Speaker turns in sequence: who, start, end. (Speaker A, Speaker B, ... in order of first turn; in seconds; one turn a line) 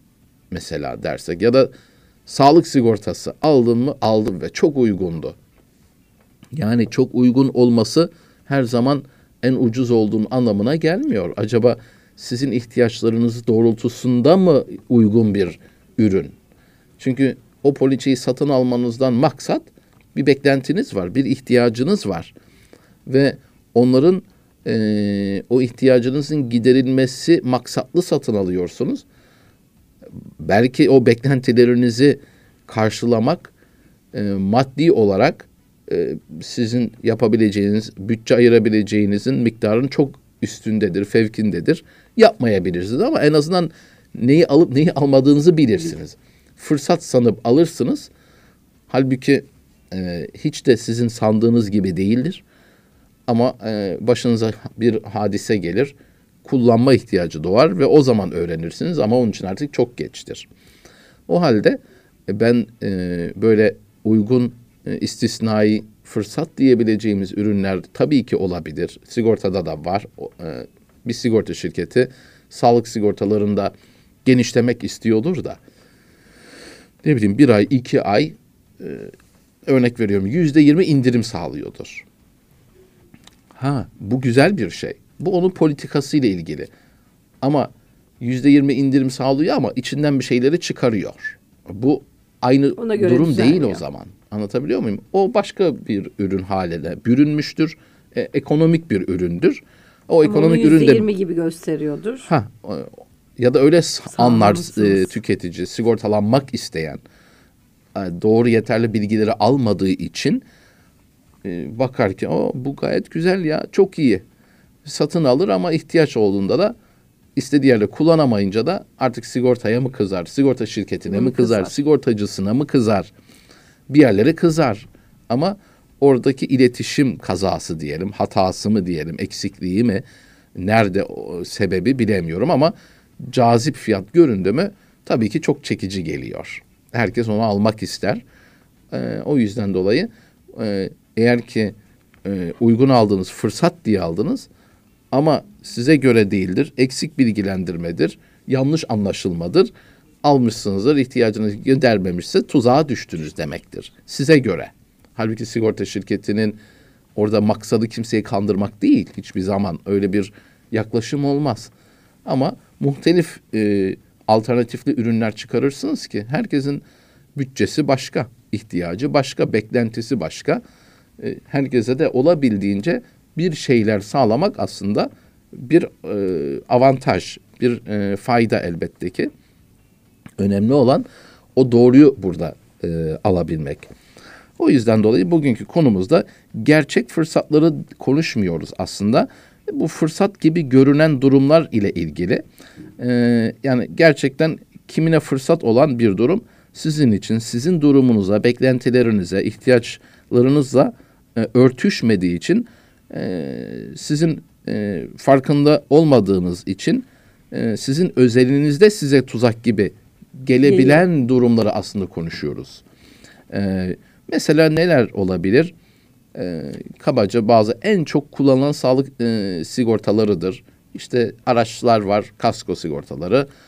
Speaker A: 0.5-1.7
Speaker A: 2.3-5.4
Speaker A: 6.5-16.3
Speaker A: 17.0-22.3
Speaker A: 23.1-29.0
Speaker A: 30.4-33.5
Speaker A: 34.1-48.1
Speaker A: 48.9-52.4
Speaker A: 53.3-60.5
Speaker A: 61.3-73.7
Speaker A: 74.2-75.6
Speaker A: 77.0-79.1
Speaker A: 79.7-82.1
Speaker A: 83.5-86.7
Speaker A: 87.4-101.1
Speaker B: 92.8-93.8
Speaker B: 100.2-102.3
Speaker A: 102.3-107.0
Speaker B: 104.2-105.1
Speaker A: 108.0-110.4
Speaker A: 111.4-114.2
Speaker A: 114.8-116.8
Speaker A: 117.4-123.1
Speaker B: 121.1-121.7
Speaker A: 123.9-130.0
Speaker A: 130.6-138.2
Speaker A: 138.9-144.5
Speaker A: 145.1-149.7
Speaker A: 150.2-156.6
Speaker A: 157.2-161.7
Speaker A: 162.2-166.8
Speaker A: 167.3-170.6
Speaker A: 171.2-179.3
Speaker A: 180.4-183.9
Speaker A: 184.6-192.4
Speaker A: 193.0-212.8
Speaker B: 210.6-211.0
Speaker A: 213.5-215.7
Speaker A: 216.3-223.5